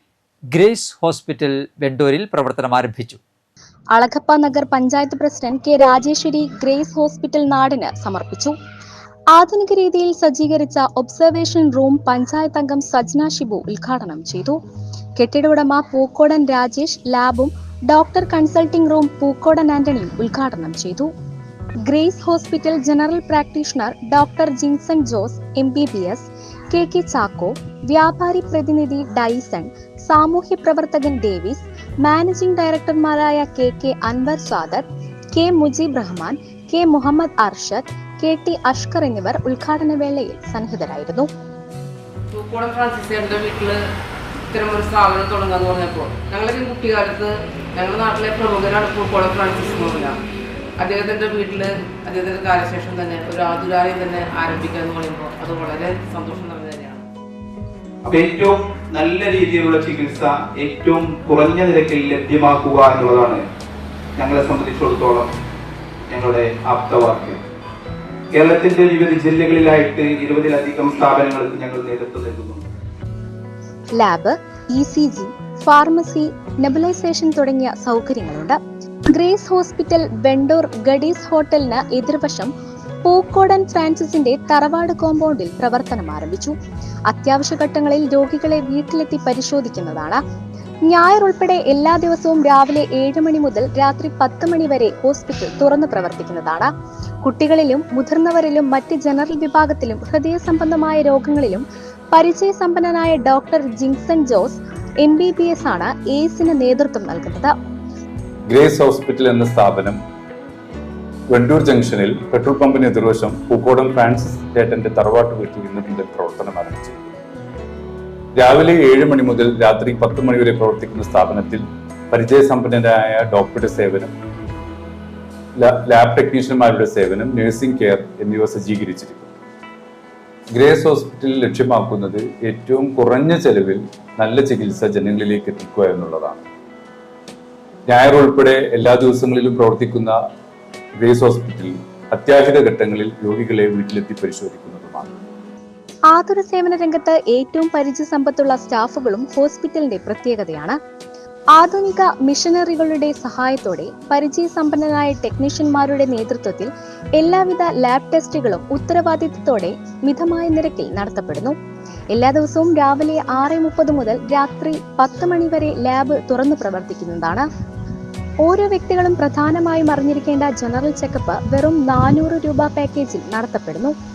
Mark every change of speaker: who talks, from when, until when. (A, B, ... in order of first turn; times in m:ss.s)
0:00.5-0:03.2 A
0:03.9-0:08.5 B
0:09.3-0:14.6 B
0:15.2-0:21.1 B
0:21.9-0:41.3 B
0:42.3-0:43.8 C
0:44.5-0:50.2 C
0:50.8-0:57.0 C
0:58.0-1:03.4 D
1:04.2-1:05.3 D
1:06.1-1:07.4 D
1:08.3-1:12.6 D
1:14.0-1:18.6 B
1:19.1-1:22.5 B
1:23.0-1:26.5 B
1:27.1-1:30.2 B
1:30.9-1:36.7 B
1:37.2-1:47.5 B
1:48.5-1:50.0 E
1:51.3-1:57.1 E
1:58.4-2:04.1 E
2:05.6-2:09.3 E
2:10.5-2:16.4 E
2:17.9-2:20.2 E
2:21.0-2:25.1 E
2:26.1-2:30.8 B
2:31.6-2:41.6 B
2:42.1-2:47.4 B
2:48.4-2:53.9 B